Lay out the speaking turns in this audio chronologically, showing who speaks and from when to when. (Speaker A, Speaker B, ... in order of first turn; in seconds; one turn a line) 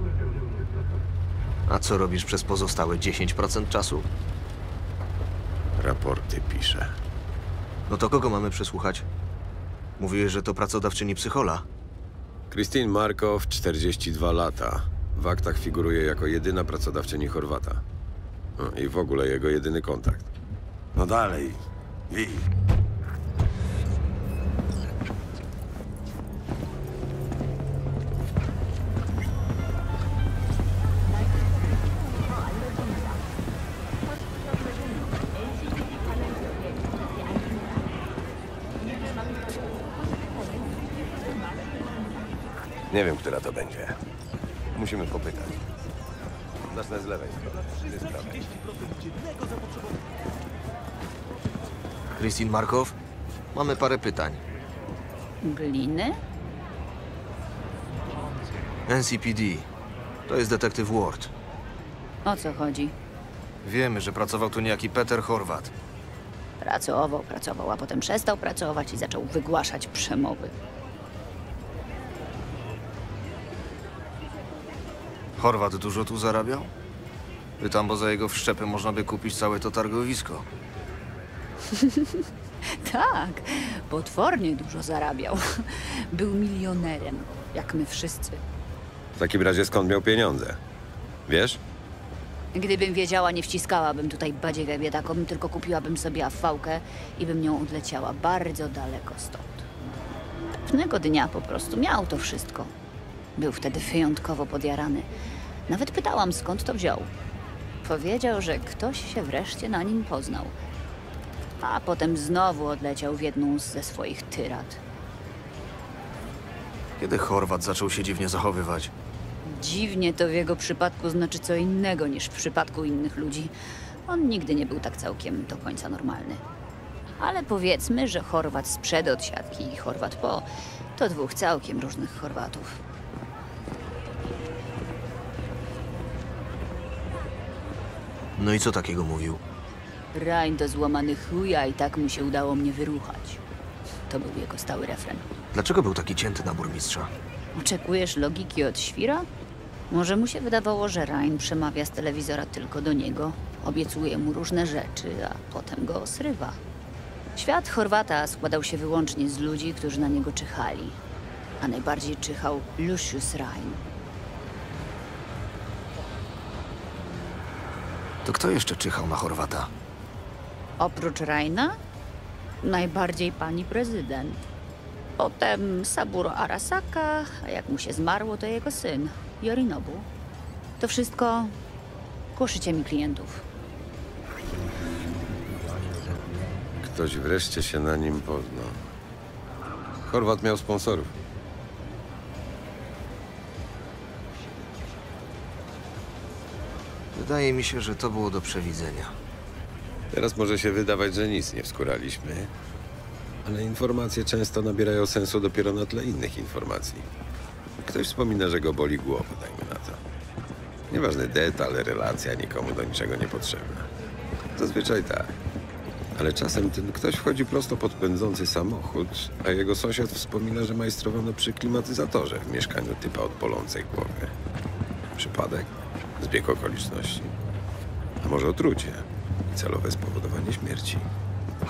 Speaker A: 1.7-4.1
Speaker B: 5.8-7.0
Speaker A: 7.9-9.1
Speaker A: 10.0-11.7
Speaker B: 12.5-17.8
Speaker B: 18.6-20.3
Speaker B: 21.0-22.5
Speaker B: 42.9-44.0
Speaker B: 44.8-45.6
Speaker B: 46.7-48.5
Speaker A: 52.1-53.0
Speaker A: 53.5-54.4
Speaker C: 55.4-56.2
Speaker A: 58.9-59.7
Speaker A: 60.3-61.3
Speaker C: 62.2-63.0
Speaker A: 63.6-65.7
Speaker C: 66.6-70.5
Speaker A: 75.4-76.7
Speaker A: 77.6-80.5
Speaker C: 81.7-88.4
Speaker B: 89.2-90.6
Speaker B: 91.3-91.6
Speaker C: 92.5-99.7
Speaker C: 100.7-102.7
Speaker C: 103.4-105.1
Speaker C: 105.7-107.1
Speaker C: 107.8-110.6
Speaker C: 111.6-114.8
Speaker A: 117.0-118.9
Speaker C: 119.5-126.4
Speaker C: 127.2-132.8
Speaker A: 138.4-139.4
Speaker C: 140.1-143.4
Speaker C: 144.1-145.3
Speaker A: 145.5-147.1
Speaker C: 147.5-149.3
Speaker C: 149.9-156.6
Speaker C: 157.3-161.0
Speaker C: 161.6-163.8
Speaker A: 168.2-169.7
Speaker C: 170.8-171.8
Speaker C: 172.6-174.4
Speaker C: 175.2-180.1
Speaker C: 180.8-181.6
Speaker C: 182.3-183.4
Speaker B: 186.8-188.9
Speaker B: 190.1-191.1
Speaker A: 197.1-199.2
Speaker B: 200.1-202.5
Speaker B: 203.4-207.1
Speaker B: 207.9-210.0
Speaker B: 210.9-213.9
Speaker B: 214.6-215.4
Speaker B: 216.1-224.3
Speaker B: 225.1-227.3
Speaker B: 228.2-231.1